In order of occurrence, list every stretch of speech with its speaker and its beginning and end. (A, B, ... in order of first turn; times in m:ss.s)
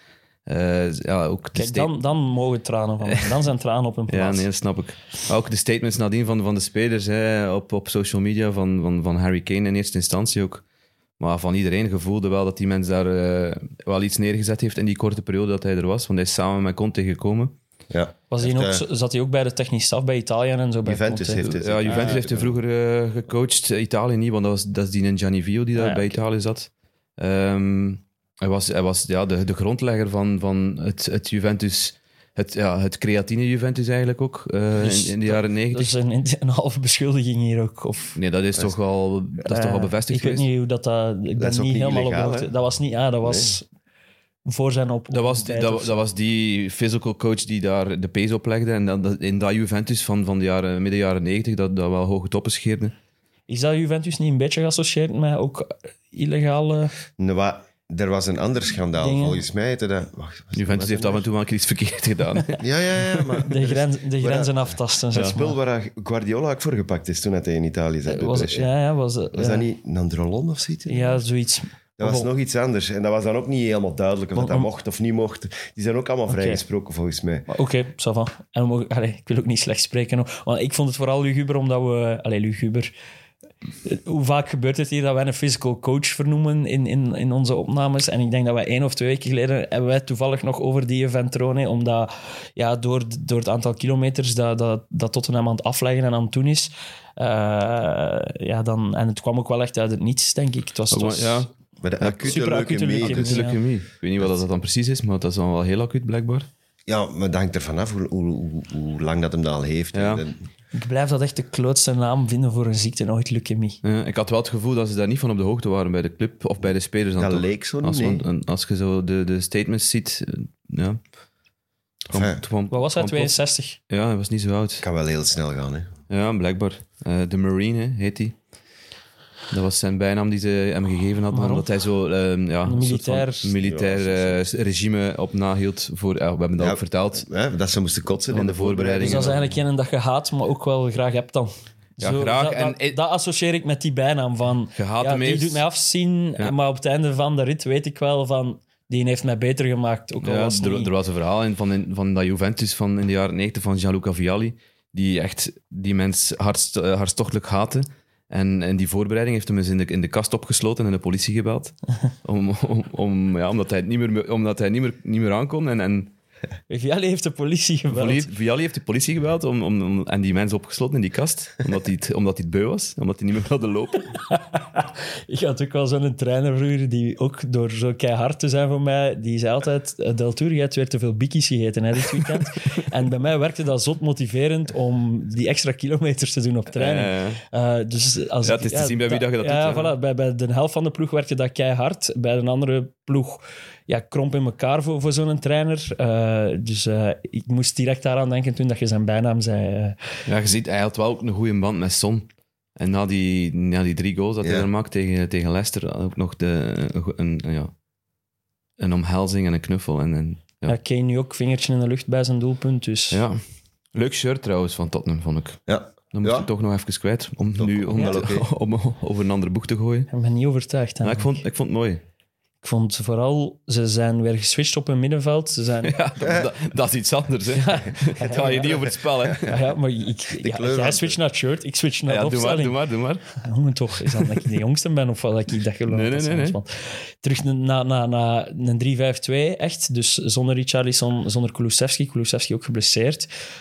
0:00.4-0:01.9 A
0:01.5-0:04.4 B
0:03.0-0:03.4 A
0:04.1-0:10.6 A
0:11.2-0:17.6 A
0:17.9-0:18.8 C
0:18.3-0:22.2 B
0:20.8-0:22.6 C
0:21.4-0:35.9 A
0:25.7-0:26.2 B
0:34.8-0:38.2 B
0:38.2-0:40.5 A
0:39.4-0:43.6 B
0:41.4-0:42.5 C
0:43.2-0:43.6 C
0:44.4-0:46.0 B
0:45.1-0:52.9 A
0:53.5-0:56.9 B
0:57.2-1:01.3 C
0:59.0-0:59.4 B
1:00.5-1:02.6 A
1:02.6-1:04.7 C
1:03.4-1:05.6 B
1:05.3-1:08.7 C
1:08.0-1:09.6 B
1:09.3-1:11.2 C
1:10.9-1:12.3 B
1:12.0-1:17.5 C
1:14.3-1:14.7 B
1:16.3-1:16.6 B
1:17.5-1:22.9 B
1:23.8-1:41.4 B
1:40.9-1:41.5 A
1:41.8-1:43.4 C
1:42.0-1:43.6 B
1:43.0-1:46.5 A
1:46.9-1:50.4 C
1:49.9-1:50.2 A
1:50.7-1:53.8 B
1:53.8-2:01.0 A
1:57.2-1:58.2 C
2:02.1-2:03.3 A
2:02.1-2:02.4 C
2:02.7-2:03.8 B
2:03.9-2:04.8 A
2:04.8-2:05.9 C
2:06.1-2:08.3 A
2:09.5-2:17.3 A
2:11.3-2:11.7 B
2:12.6-2:13.5 B
2:13.6-2:14.4 C
2:16.6-2:19.6 C
2:18.3-2:19.3 A
2:19.0-2:30.9 B
2:22.0-2:23.0 A
2:24.8-2:25.6 A
2:30.2-2:46.1 A
2:46.7-2:48.2 B
2:47.9-2:54.1 A
2:54.3-3:20.0 B
3:06.7-3:07.4 A
3:08.4-3:09.9 A
3:20.2-3:27.7 A
3:24.4-3:24.7 C
3:28.8-3:30.7 A
3:30.7-3:33.2 B
3:33.1-3:33.4 A
3:33.9-3:35.6 A
3:35.7-3:36.5 C
3:36.1-3:40.1 A
3:37.6-3:38.5 C
3:38.0-3:38.2 B
3:40.1-3:41.4 B
3:41.0-3:42.0 A
3:42.6-3:46.0 B
3:45.8-3:49.6 A
3:46.2-3:46.4 C
3:47.5-3:48.8 B
3:49.4-3:52.8 B
3:50.3-3:51.2 C
3:52.1-3:53.2 A
3:53.3-4:03.3 B
3:55.9-3:56.6 A